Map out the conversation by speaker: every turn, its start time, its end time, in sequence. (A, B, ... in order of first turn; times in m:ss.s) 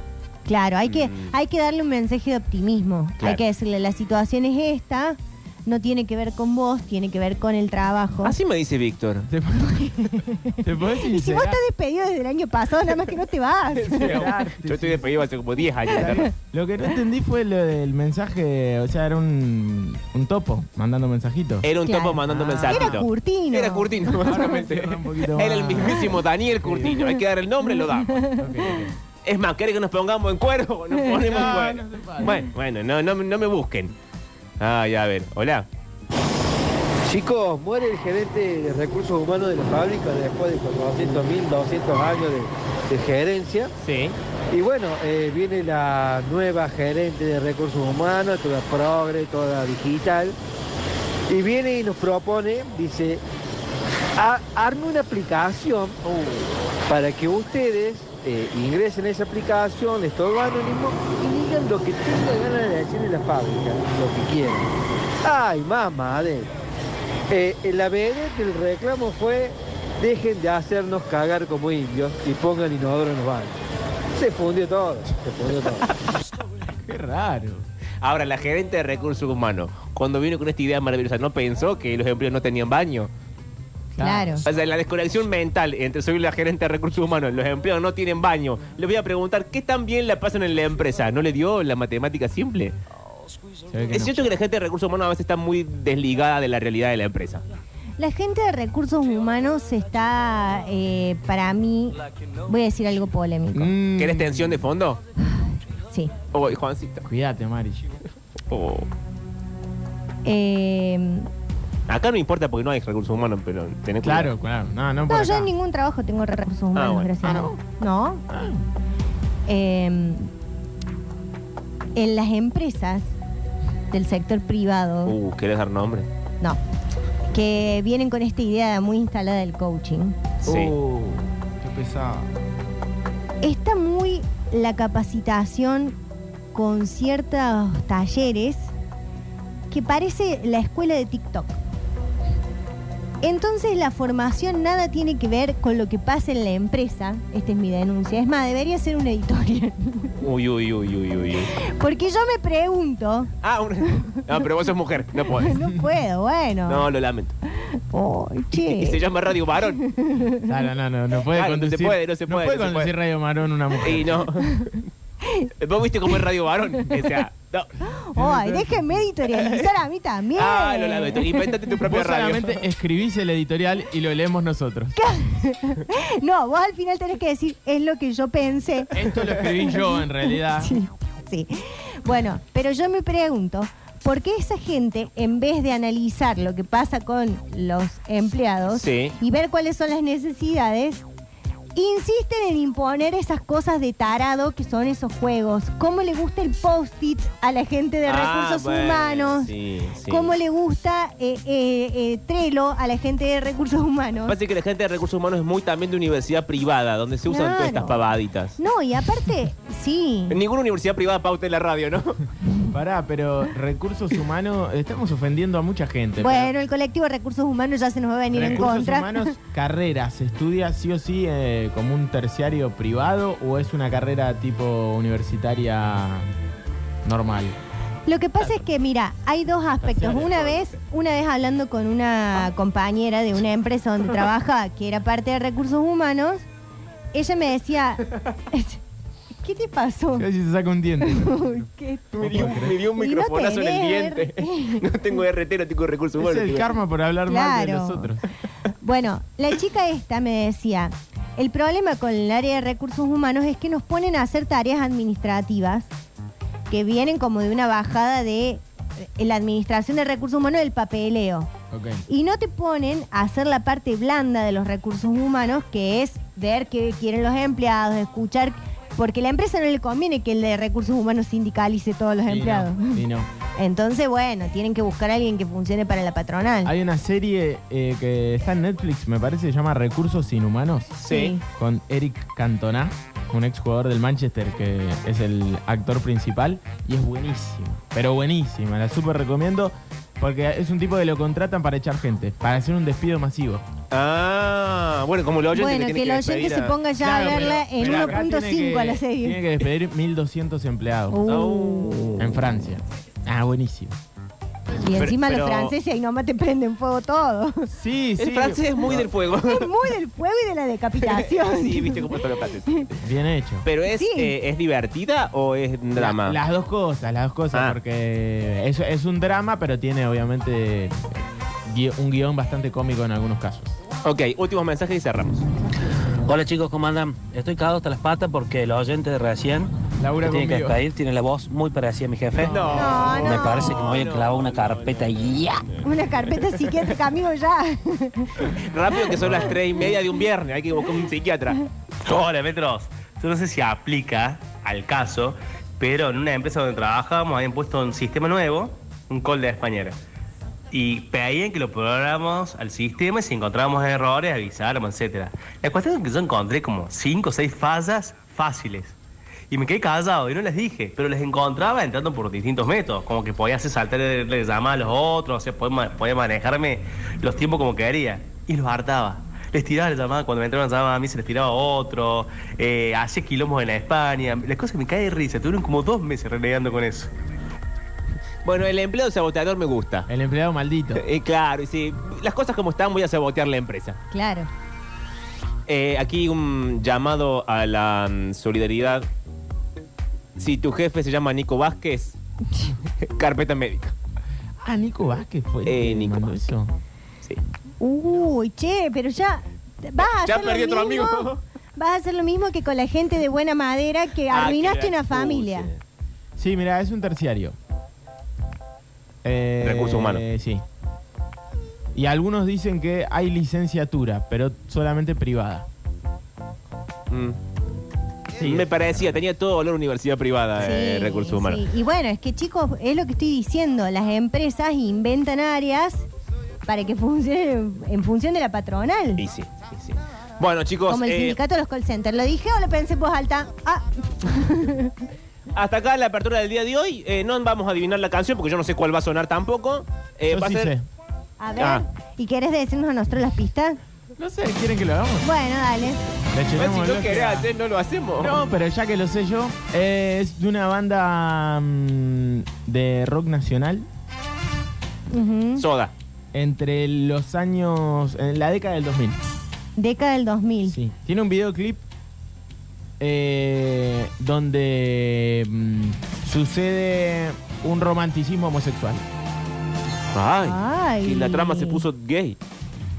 0:00.4-0:08.3 A
0:00.8-0:01.3 B
0:08.2-0:09.3 B
0:09.3-0:11.6 C
0:09.7-0:14.3 A
0:13.7-0:16.3 B
0:14.0-0:15.1 C
0:16.0-0:21.7 C
0:21.6-0:28.2 B
0:21.8-0:24.4 A
0:22.2-0:23.0 C
0:24.2-0:26.9 C
0:26.9-0:27.2 A
0:27.7-0:28.8 A
0:28.4-0:28.9 C
0:29.2-0:33.9 B
0:31.2-0:32.4 C
0:34.6-0:35.7 B
0:37.0-0:43.7 D
0:43.8-0:44.2 B
0:44.5-0:50.4 D
0:51.3-0:53.2 D
0:54.2-0:56.0 D
0:56.8-1:04.7 D
1:05.2-1:06.5 D
1:07.3-1:13.6 D
1:14.1-1:15.9 D
1:16.8-1:17.7 C
1:18.0-1:23.1 B
1:24.0-1:24.4 C
1:24.0-1:24.4 A
1:24.4-1:32.7 B
1:33.7-1:34.3 C
1:33.9-1:37.4 B
1:38.0-1:43.7 A
1:43.5-1:44.6 C
1:44.0-1:45.0 B
1:45.2-1:46.1 A
1:46.3-1:47.1 B
1:47.1-1:47.9 C
1:48.5-1:48.9 B
1:50.2-1:51.3 A
1:51.9-1:54.3 B
1:54.0-1:55.5 C
1:55.1-1:58.2 A
1:56.7-1:57.1 B
1:57.2-1:57.6 C
1:58.3-1:58.6 C
1:59.5-2:00.3 A
2:01.9-2:03.1 A
2:03.9-2:05.1 A
2:05.0-2:06.1 B
2:07.3-2:10.3 A
2:10.4-2:10.7 B
2:10.4-2:12.3 C
2:13.4-2:16.0 A
2:16.5-2:18.7 A
2:19.7-2:21.6 A
2:23.2-2:30.1 A
2:30.2-2:31.5 B
2:31.6-2:33.3 A
2:33.4-2:35.6 B
2:33.8-2:34.2 A
2:35.3-2:36.9 A
2:36.6-2:37.4 B
2:37.6-2:39.0 A
2:38.5-2:39.8 B
2:39.8-2:40.5 A
2:40.5-2:44.3 C
2:41.3-2:42.9 B
2:43.8-2:44.8 B
2:45.2-2:45.5 A
2:45.6-2:47.7 B
2:47.8-2:51.5 A
2:48.2-2:49.0 C
2:49.3-2:49.7 B
2:50.3-2:52.6 B
2:51.8-2:55.0 C
2:55.0-2:59.8 A
2:58.9-3:00.8 C
3:00.6-3:11.0 A
3:08.7-3:09.2 B
3:11.7-3:19.5 A
3:18.0-3:20.3 B
3:20.1-3:24.4 A
3:24.3-3:28.6 B
3:27.3-3:28.0 A
3:28.6-3:30.4 A
3:30.3-3:32.2 B
3:32.7-3:36.5 C
3:36.2-3:39.3 A
3:38.3-3:46.3 C
3:47.0-3:47.6 C
3:48.0-3:56.4 A
3:49.9-3:50.7 B
3:57.1-3:58.8 A
3:59.4-4:00.3 A
4:00.2-4:01.6 C
4:01.0-4:04.8 A
4:02.1-4:06.7 B
4:02.2-4:02.7 C
4:06.2-4:08.2 C
4:07.3-4:08.1 A
4:08.8-4:15.9 A
4:16.7-4:21.5 A
4:21.7-4:22.0 C
4:22.1-4:33.0 A
4:32.2-4:33.3 C
4:33.6-4:36.7 A
4:36.6-4:41.0 C
4:41.0-4:41.3 B
4:41.1-4:41.4 A
4:41.5-4:53.6 C
4:53.9-4:56.8 B
4:55.5-4:59.4 A
4:57.0-5:01.2 C
4:57.5-4:58.1 B
5:01.1-5:02.2 A
5:01.3-5:02.4 B
5:02.2-5:04.0 C
5:04.8-5:07.7 A
5:04.9-5:05.7 B
5:07.7-5:09.0 C
5:08.2-5:09.9 B
5:09.4-5:12.1 A
5:11.0-5:12.9 B
5:13.0-5:13.7 C
5:13.6-5:16.4 B
5:13.9-5:14.3 A
5:16.0-5:23.8 C
5:24.0-5:25.5 B
5:26.2-5:29.7 E
5:30.0-5:30.8 C
5:30.2-5:35.7 E
5:32.5-5:35.8 B
5:32.7-5:33.8 A
5:35.8-5:39.1 A
5:38.5-5:41.6 B
5:39.3-5:39.5 C
5:42.0-5:50.0 F
5:50.7-5:59.0 F
5:59.5-6:17.1 F
6:18.4-6:20.1 B
6:20.1-6:21.0 C
6:20.9-6:24.0 B
6:24.1-6:24.5 A
6:25.7-6:29.1 B
6:30.4-6:32.2 B
6:33.0-6:33.9 B
6:34.6-6:36.8 C
6:35.6-6:36.4 B
6:37.8-6:45.7 A
6:40.0-6:41.4 B
6:44.3-6:45.8 B
6:46.4-6:47.6 C
6:49.2-6:50.6 C
6:49.6-6:50.2 B
6:51.9-6:55.7 C
6:57.1-6:57.4 B
6:58.4-6:59.2 C
6:58.4-7:01.6 B
7:00.6-7:06.1 A
7:06.6-7:09.2 A
7:09.2-7:11.4 B
7:10.9-7:14.9 A
7:15.5-7:20.7 B
7:20.3-7:20.8 C
7:21.4-7:23.8 A
7:21.6-7:21.8 B
7:24.2-7:25.3 C
7:25.2-7:26.1 A
7:26.3-7:27.5 C
7:26.6-7:28.4 B
7:28.2-7:33.9 C
7:35.1-7:35.6 A
7:35.6-7:35.9 B
7:36.3-7:39.2 C
7:39.8-7:40.8 A
7:40.6-7:41.8 C
7:43.0-7:49.0 C
7:50.1-7:52.4 B
7:50.4-7:51.8 A